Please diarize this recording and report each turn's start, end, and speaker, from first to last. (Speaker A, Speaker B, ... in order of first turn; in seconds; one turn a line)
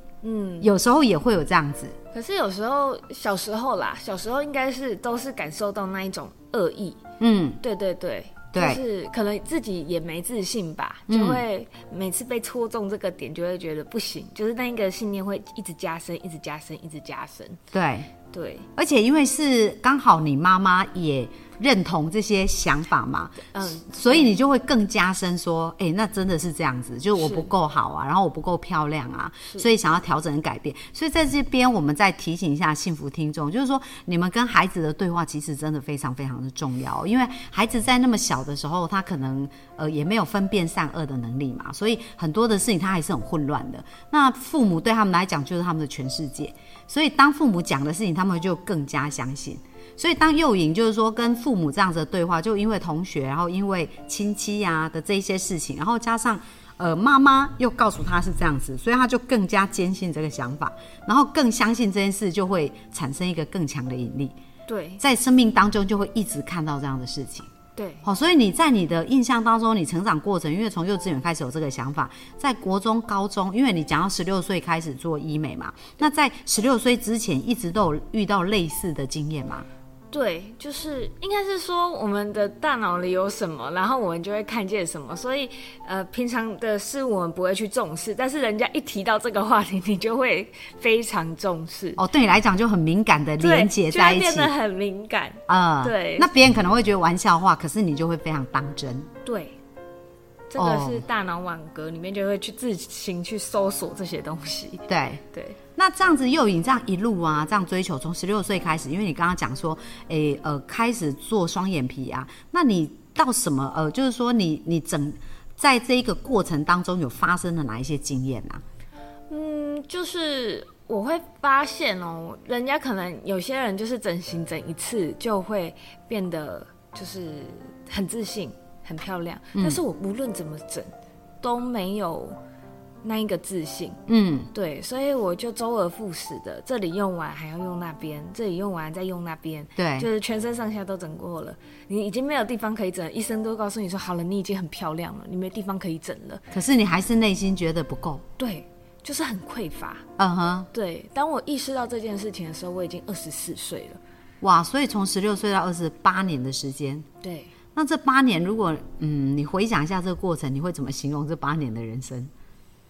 Speaker A: 0.2-0.7
Speaker B: 0.6-2.0
Speaker A: 2.1-7.0
Speaker B: 7.2-7.6
Speaker A: 7.6-17.6
Speaker B: 8.5-8.8
Speaker B: 11.1-11.4
Speaker B: 17.7-18.1
Speaker A: 18.3-18.7
Speaker B: 18.8-64.3
Speaker A: 23.5-24.4
Speaker A: 27.2-27.5
Speaker A: 64.7-65.0
Speaker B: 65.0-67.5
Speaker A: 67.8-68.1
Speaker B: 68.0-79.7
Speaker A: 80.1-92.0
Speaker B: 92.0-94.5
Speaker A: 93.4-96.3
Speaker B: 95.5-99.1
Speaker A: 99.2-99.6
Speaker A: 100.5-105.6
Speaker B: 100.6-101.0
Speaker B: 104.9-105.2
Speaker B: 105.8-118.6
Speaker A: 119.3-132.4
Speaker A: 133.0-134.0
Speaker B: 134.1-134.5
Speaker A: 134.5-146.4
Speaker B: 139.8-140.1
Speaker B: 146.5-148.2
Speaker A: 148.4-150.1
Speaker B: 150.2-150.7
Speaker A: 150.7-154.0
Speaker B: 154.4-157.1
Speaker A: 157.2-157.5
Speaker B: 157.7-162.3